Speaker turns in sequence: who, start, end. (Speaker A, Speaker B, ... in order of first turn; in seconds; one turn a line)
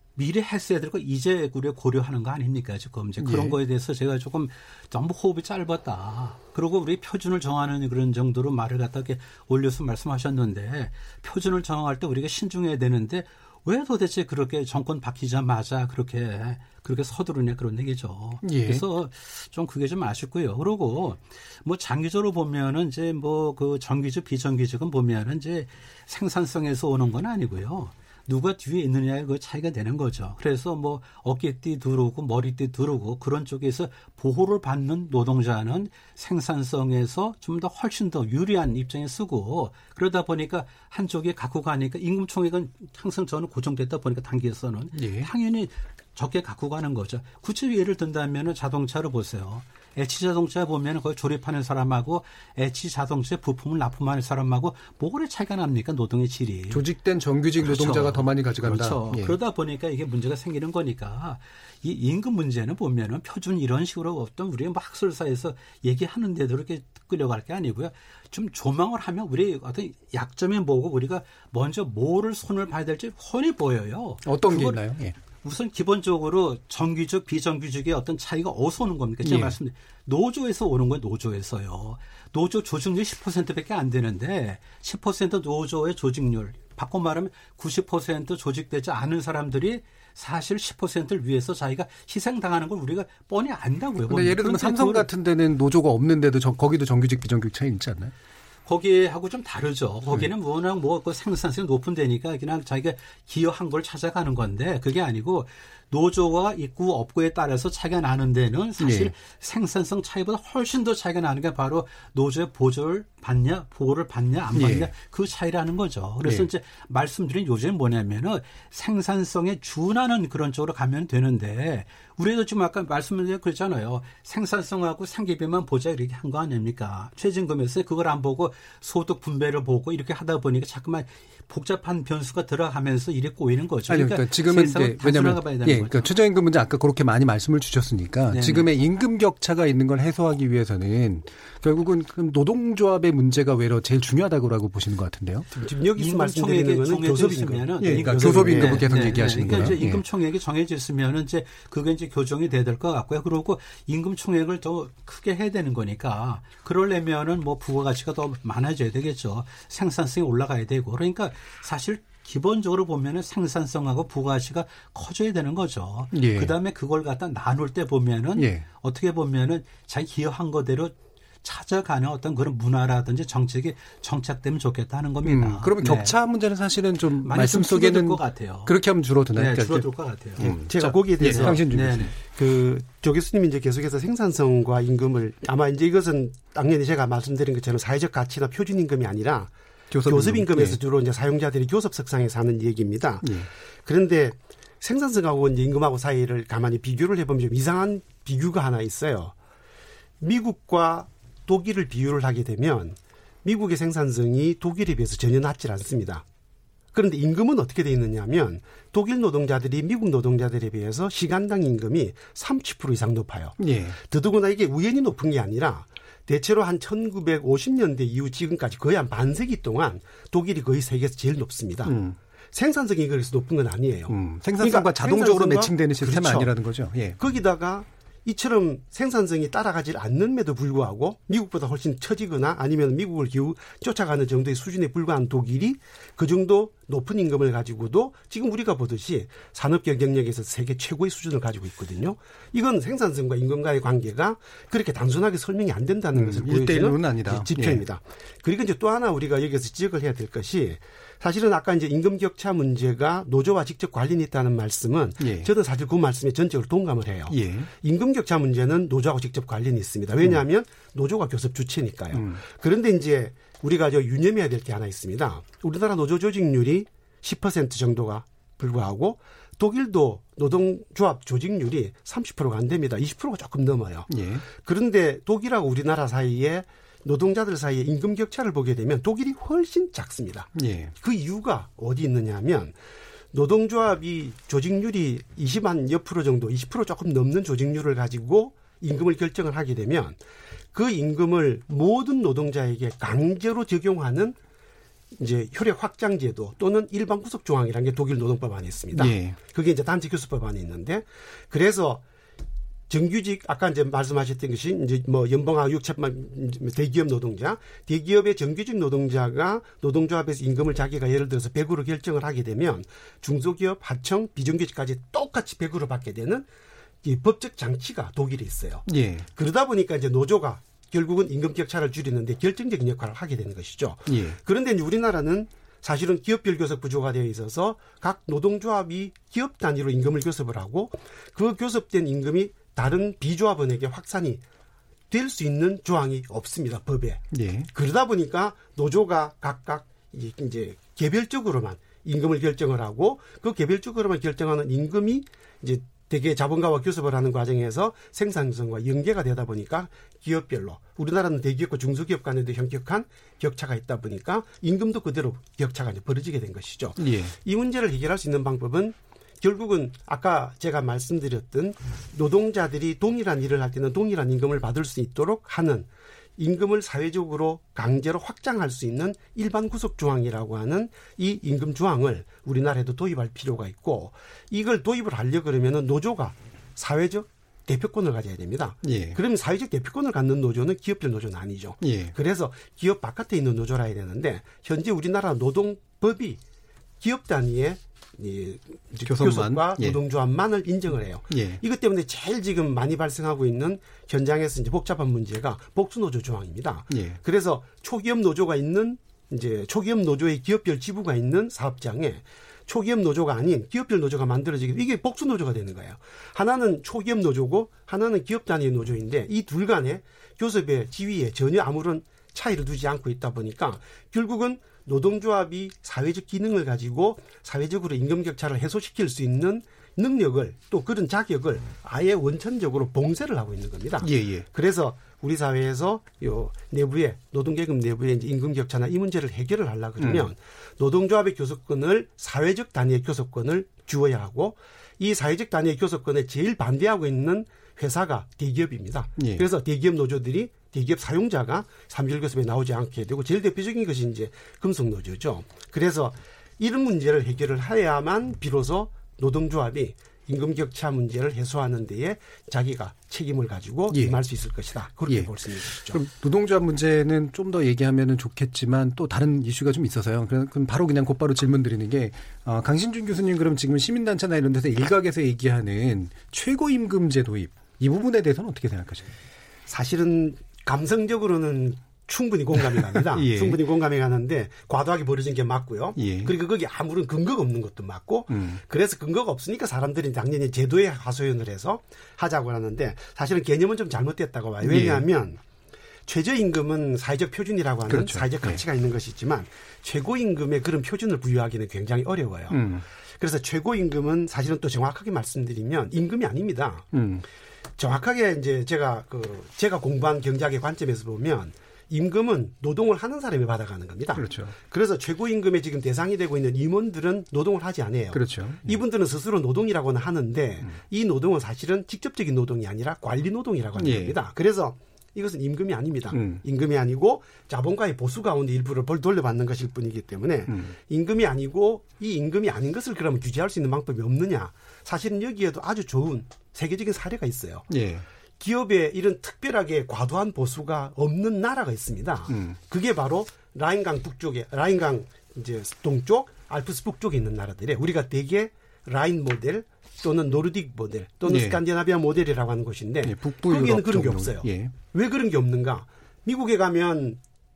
Speaker A: 0.2-56.9
Speaker B: 3.2-3.6
Speaker B: 18.4-18.8
Speaker B: 44.9-45.3
Speaker B: 56.7-59.4
Speaker A: 57.6-74.9
Speaker B: 74.2-75.2
Speaker A: 75.4-95.1
Speaker B: 79.2-79.6
Speaker B: 94.1-98.1
Speaker A: 98.7-136.1
Speaker B: 108.8-109.1
Speaker B: 114.5-114.9
Speaker B: 133.9-145.5
Speaker A: 138.3-138.7
Speaker C: 145.5-149.1
Speaker A: 146.0-176.2
Speaker B: 147.8-150.0
Speaker B: 166.1-166.5
Speaker B: 168.4-168.7
Speaker B: 175.2-182.1
Speaker A: 177.2-178.8
Speaker A: 179.3-180.5
Speaker C: 180.4-181.7
Speaker A: 181.2-182.1
Speaker C: 182.3-189.5
Speaker B: 189.9-190.8
Speaker C: 190.1-199.3
Speaker B: 193.2-193.5
Speaker C: 200.2-206.2
Speaker C: 206.9-221.9
Speaker B: 213.6-214.0
Speaker B: 221.8-222.2
Speaker C: 222.5-226.5
Speaker B: 224.1-227.2
Speaker C: 227.2-282.7
Speaker B: 246.1-247.8
Speaker B: 255.2-255.5
Speaker B: 257.3-257.7
Speaker B: 262.1-262.4
Speaker B: 274.1-274.5
Speaker B: 280.6-280.9
Speaker C: 283.3-290.2
Speaker C: 290.7-294.4
Speaker C: 295.2-302.0
Speaker B: 298.9-299.4
Speaker C: 302.9-316.5
Speaker C: 317.0-334.4
Speaker B: 318.9-319.3
Speaker B: 324.1-324.4
Speaker C: 335.1-386.4
Speaker B: 337.3-337.7
Speaker B: 357.0-357.4
Speaker B: 378.8-379.2
Speaker B: 381.8-382.1
Speaker C: 387.0-456.0
Speaker B: 389.0-390.0
Speaker B: 391.3-391.6
Speaker B: 396.9-397.2
Speaker B: 424.0-424.5
Speaker B: 430.0-430.3
Speaker B: 439.2-439.5
Speaker B: 453.9-454.2
Speaker B: 455.9-469.1
Speaker C: 469.7-485.4
Speaker B: 472.6-473.6
Speaker B: 476.0-476.3
Speaker B: 478.3-478.6
Speaker B: 484.6-485.0
Speaker C: 486.1-496.9
Speaker B: 487.9-488.6
Speaker B: 492.5-492.9
Speaker B: 496.9-497.2
Speaker C: 497.8-527.7
Speaker B: 504.1-504.6
Speaker B: 508.1-508.8
Speaker B: 513.8-514.2
Speaker B: 516.1-516.4
Speaker B: 520.5-520.8
Speaker B: 527.7-528.1
Speaker C: 528.4-547.2
Speaker B: 532.3-532.6
Speaker B: 541.3-541.6
Speaker B: 543.0-544.8